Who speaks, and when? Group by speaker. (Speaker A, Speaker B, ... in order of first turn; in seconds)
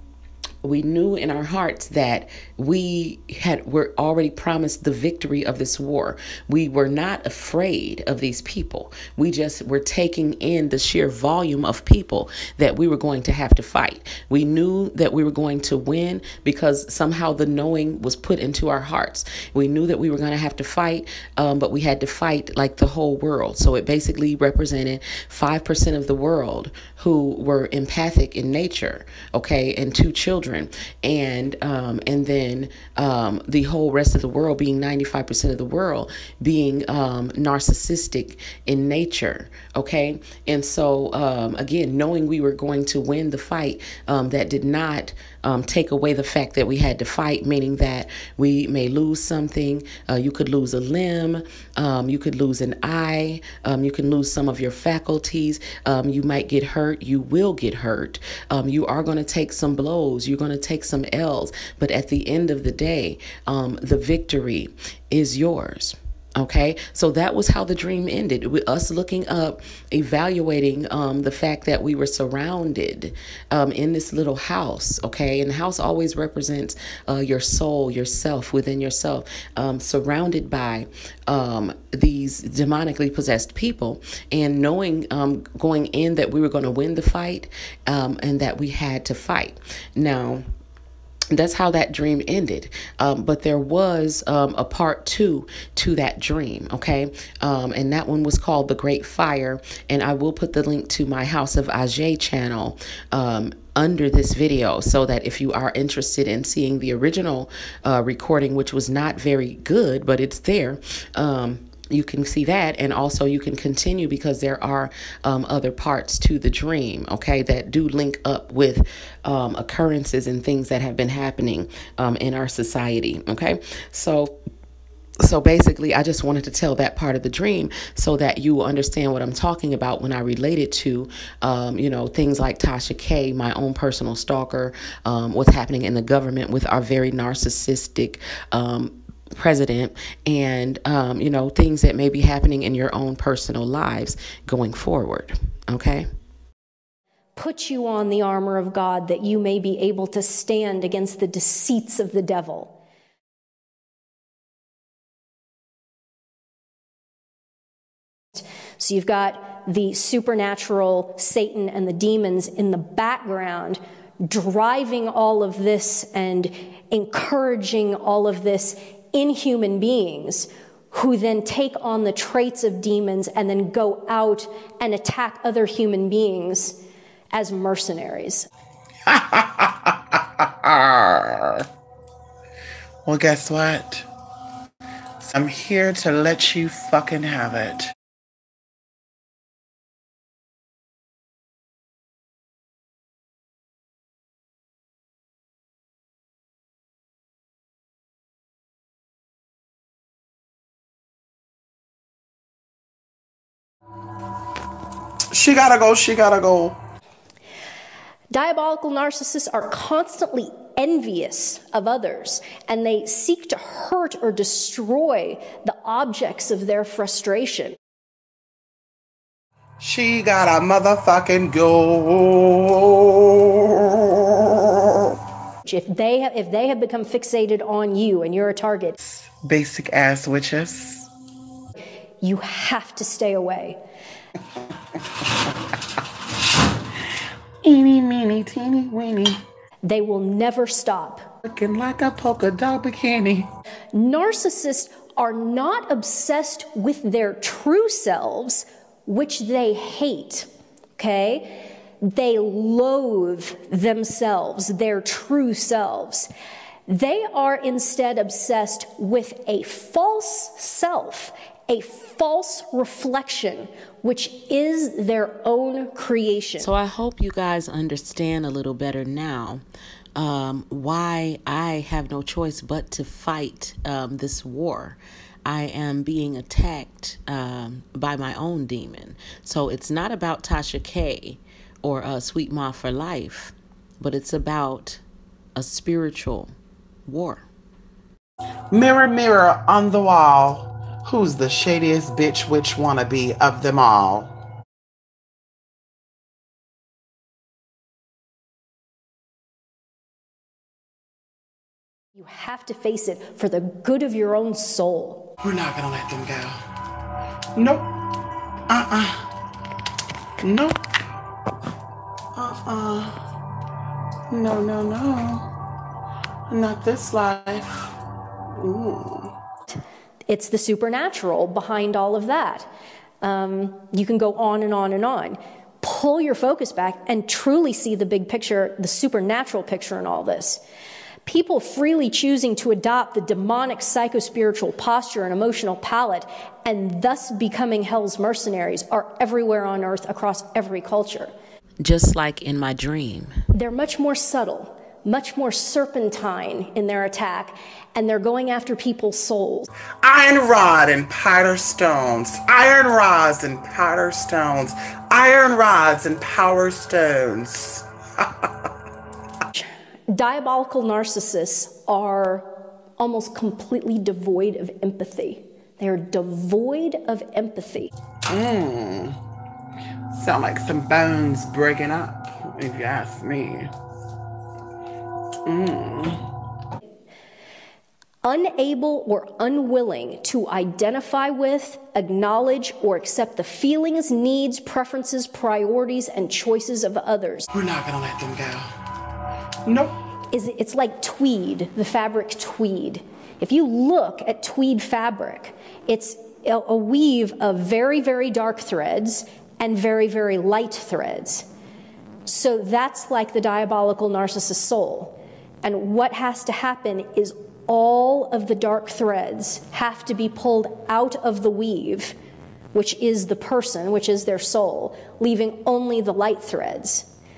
Speaker A: 0.6-90.5, 91.3-124.3, 125.2-146.1, 266.6-269.6, 270.1-285.0, 285.6-286.6, 287.1-287.5, 341.8-343.4
Speaker B: 147.4-152.7, 158.3-176.8, 177.3-178.5, 208.3-217.8, 225.7-229.0, 232.2-233.8, 239.8-241.3, 243.9-256.3, 256.9-266.7, 302.2-305.3, 320.3-322.7, 323.2-330.6, 331.3-341.3, 343.5-349.7, 359.6-367.9, 378.2-387.5, 390.3-401.5, 402.3-412.2, 412.7-417.1
Speaker C: 179.1-181.7, 183.1-184.1, 185.2-187.9, 205.3-206.8, 219.8-225.2, 229.0-231.1, 237.6-239.4, 241.4-243.5, 288.7-294.3, 305.4-306.6, 307.6-307.9, 308.7-309.3, 310.4-310.8, 312.4-313.2, 314.3-315.4, 316.5-317.9, 318.6-319.3, 350.0-358.7, 368.3-369.2, 370.1-373.7, 375.5-376.2, 387.5-388.7, 389.7-389.9